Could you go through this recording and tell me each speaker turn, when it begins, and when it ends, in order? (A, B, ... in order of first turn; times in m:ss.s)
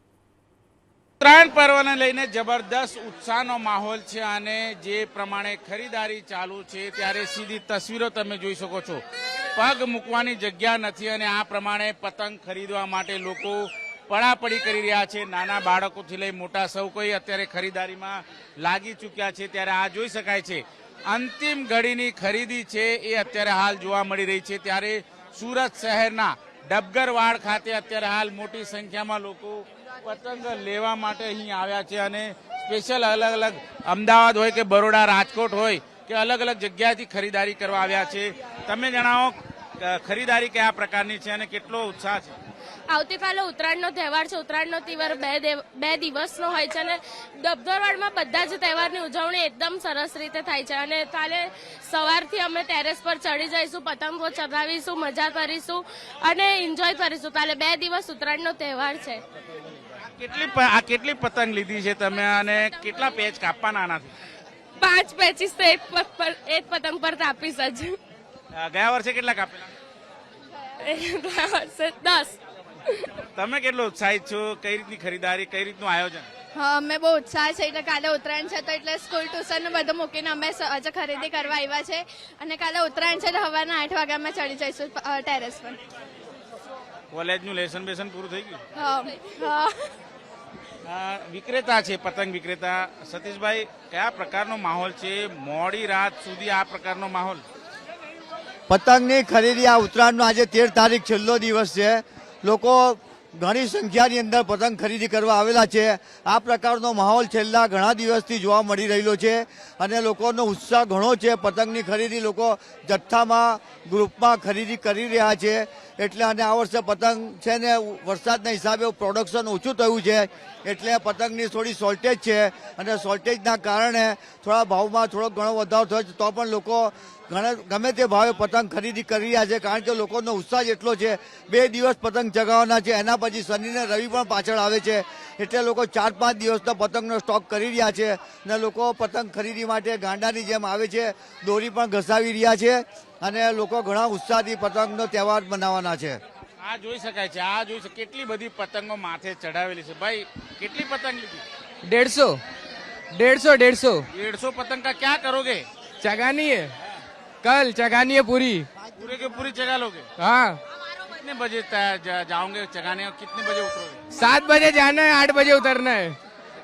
0:01.2-0:09.0 A
0:09.6-0:42.4 A
0:42.9-0:59.2 B
1:00.1-1:04.1 A
1:04.8-1:08.0 B
1:08.5-1:09.7 A
1:10.8-1:13.0 B
1:13.4-1:16.3 A
1:16.7-1:25.6 C
1:27.1-1:28.6 A
1:30.9-1:37.4 A
1:38.7-2:26.2 D
2:26.6-2:31.4 A
2:31.8-2:32.4 E
2:33.2-2:34.0 E
2:34.1-2:35.6 A
2:36.0-2:36.7 E
2:37.4-2:38.7 E
2:39.0-2:40.1 A
2:40.2-2:40.6 E
2:41.1-2:44.0 A
2:44.2-2:46.2 E